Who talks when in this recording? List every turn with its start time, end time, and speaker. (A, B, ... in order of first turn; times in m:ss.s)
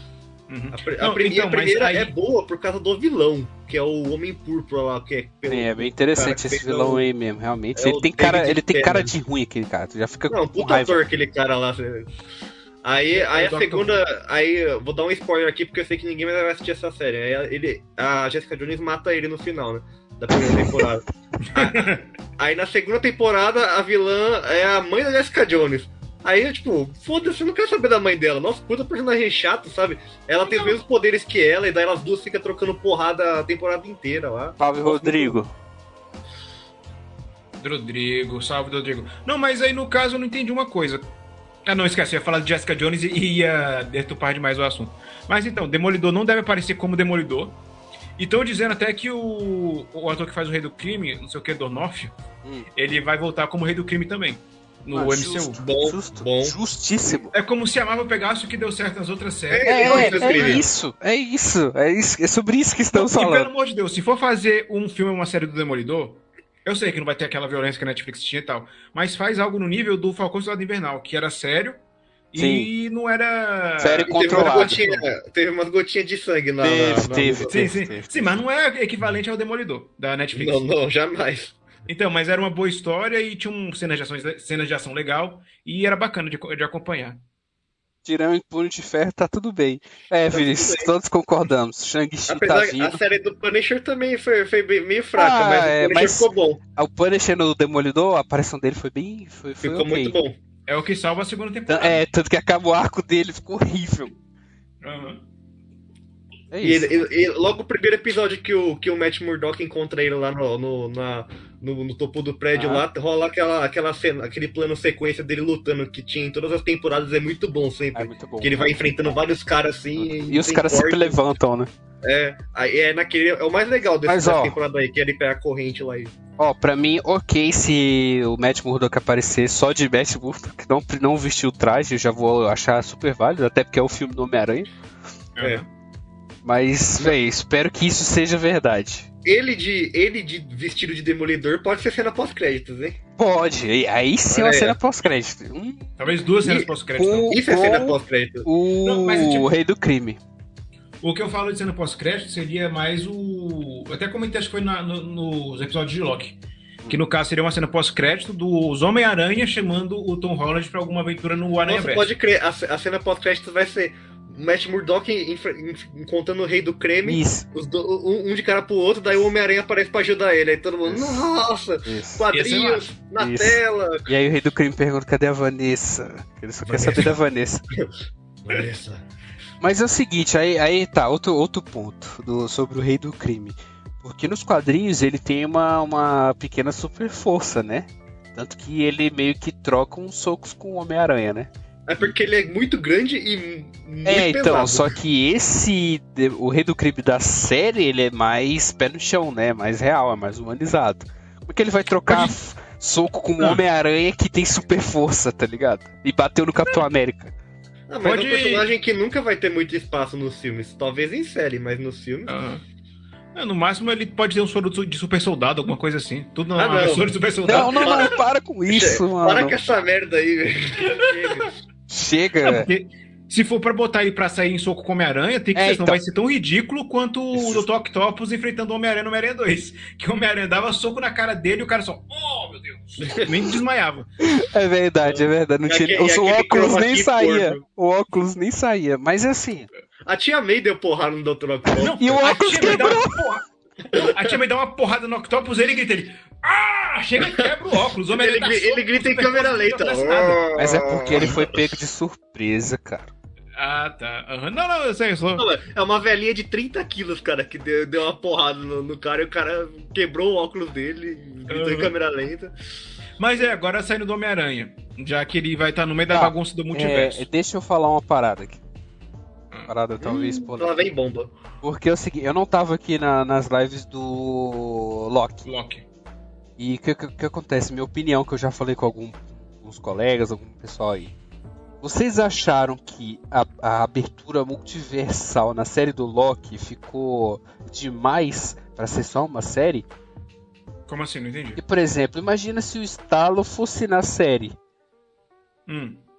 0:00.5-0:02.1 A
0:00.7-0:07.1 B
0:05.5-0:11.0 C
0:07.8-0:09.1 B
0:10.3-0:12.1 B
0:12.8-0:21.8 B
0:13.2-0:14.0 A
0:21.4-0:22.0 A
0:22.4-0:35.4 B
0:30.4-0:30.8 A
0:34.6-0:35.5 C
0:37.6-0:41.0 A
0:41.7-0:47.6 A
0:48.2-0:52.2 A
0:52.8-0:55.6 A
0:54.9-0:57.3 C
0:55.6-0:56.6 B
0:57.3-1:00.7 A
0:59.5-1:00.7 B
0:59.6-1:03.5 C
1:02.9-1:11.8 A
1:12.3-1:14.9 A
1:12.4-1:12.7 C
1:13.8-1:15.0 C
1:14.1-1:17.7 B
1:16.6-1:18.3 C
1:17.5-1:20.6 A
1:20.3-1:21.6 B
1:21.9-1:27.2 A
1:28.0-1:33.0 C
1:30.3-1:30.9 B
1:32.3-1:36.6 B
1:35.2-1:40.2 C
1:39.6-1:40.4 B
1:40.7-1:42.0 A
1:41.7-1:44.1 C
1:44.8-1:45.2 A
1:46.5-1:47.0 C
1:46.6-2:01.2 B
1:52.6-1:52.8 C
1:58.0-1:58.8 C
2:00.2-2:01.7 C
2:02.0-2:06.2 B
2:04.1-2:04.6 C
2:06.4-2:14.7 C
2:15.4-2:15.7 A
2:16.4-2:19.1 C
2:19.2-2:23.0 B
2:23.2-2:25.9 C
2:24.3-2:24.8 B
2:26.0-2:27.4 A
2:26.4-2:26.7 B
2:26.9-2:30.2 C
2:27.3-2:28.5 B
2:28.8-2:29.5 A
2:31.0-2:42.1 A
2:41.6-2:54.1 B
2:47.0-2:47.4 C
2:50.9-2:51.2 C
2:51.8-2:52.2 C
2:52.3-2:52.9 A
2:53.2-2:57.6 C
2:56.7-2:57.1 B
2:58.4-2:59.0 B
2:59.6-3:11.5 C
3:11.9-3:14.9 B
3:14.0-3:27.3 C
3:22.1-3:22.4 A
3:27.9-3:32.3 B
3:28.0-3:28.7 A
3:32.3-3:32.6 A
3:33.4-3:38.1 A
3:36.6-3:38.1 B
3:37.4-3:39.6 C
3:38.7-3:41.6 B
3:40.9-3:41.5 A
3:41.9-3:42.7 C
3:42.4-3:54.1 A
3:45.5-3:46.0 C
3:47.3-3:47.7 C
3:53.0-3:53.3 B
3:54.2-3:59.7 C
3:55.0-3:57.6 B
4:00.1-4:03.0 B
4:01.8-4:10.6 A
4:02.0-4:03.2 C
4:03.9-4:04.3 B
4:07.2-4:07.6 B
4:08.1-4:11.6 B
4:10.6-4:13.1 C
4:11.2-4:11.4 A
4:13.6-4:15.5 A
4:15.4-4:22.5 B
4:21.5-4:21.9 A
4:23.2-4:27.2 A
4:26.1-4:28.6 C
4:29.7-4:30.8 C
4:30.0-4:31.3 B
4:31.6-4:35.4 C
4:35.4-4:35.8 A
4:36.6-4:41.1 C
4:41.8-4:49.9 C
4:50.9-4:51.6 A
4:51.6-4:54.6 C
4:55.7-4:56.0 A